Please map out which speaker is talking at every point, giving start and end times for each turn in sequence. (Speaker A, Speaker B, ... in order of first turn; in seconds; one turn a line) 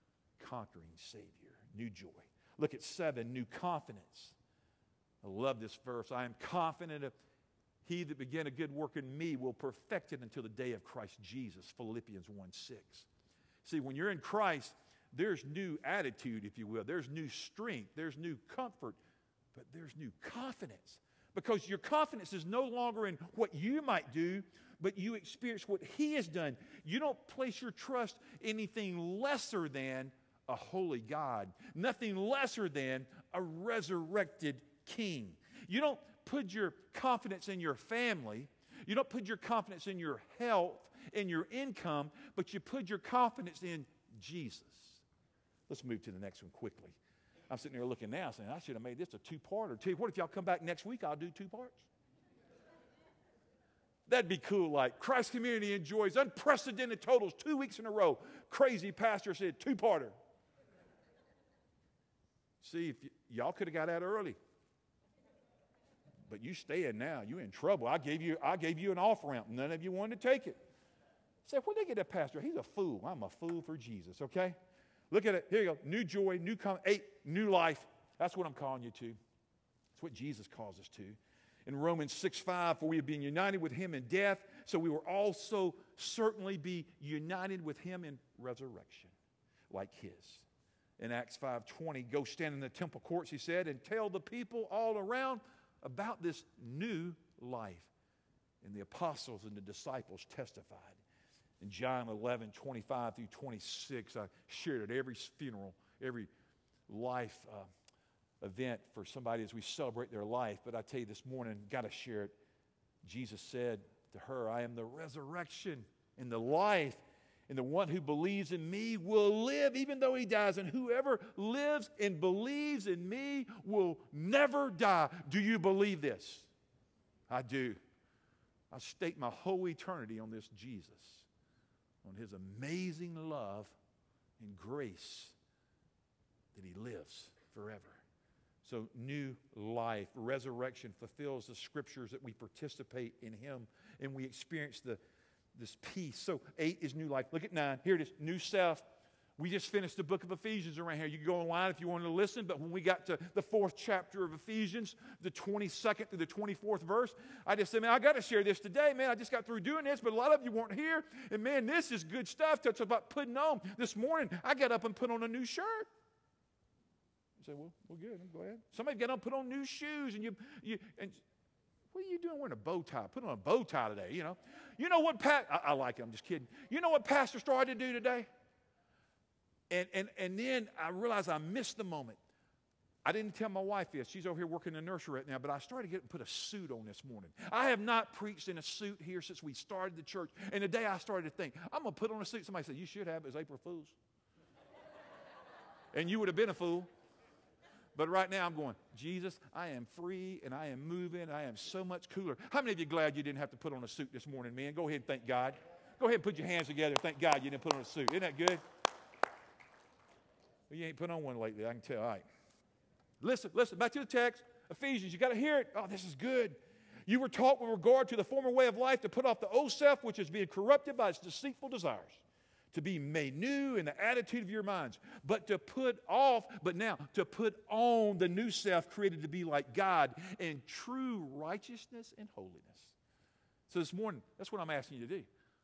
Speaker A: 0.4-4.3
Speaker A: 5.2-7.1
Speaker A: 7.8-13.1
Speaker A: 13.6-19.0
Speaker A: 19.5-45.0
Speaker A: 45.7-47.0
Speaker A: 47.5-51.9
Speaker A: 54.1-60.1
Speaker A: 62.6-64.4
Speaker A: 66.3-70.6
Speaker A: 71.4-74.6
Speaker A: 75.1-79.2
Speaker A: 79.9-89.1
Speaker A: 89.7-90.5
Speaker A: 91.0-97.9
Speaker A: 98.6-101.0
Speaker A: 101.6-106.3
Speaker A: 106.9-107.7
Speaker A: 108.4-112.3
Speaker A: 113.0-126.5
Speaker A: 127.3-127.8
Speaker A: 128.7-131.3
Speaker A: 132.0-133.8
Speaker A: 134.4-135.3
Speaker A: 136.5-138.0
Speaker A: 138.6-145.0
Speaker A: 145.5-148.8
Speaker A: 149.4-165.9
Speaker A: 167.4-171.2
Speaker A: 171.9-178.3
Speaker A: 179.7-182.2
Speaker A: 183.0-193.9
Speaker A: 195.9-196.9
Speaker A: 197.9-208.6
Speaker A: 210.7-212.2
Speaker A: 213.2-232.9
Speaker A: 233.7-235.3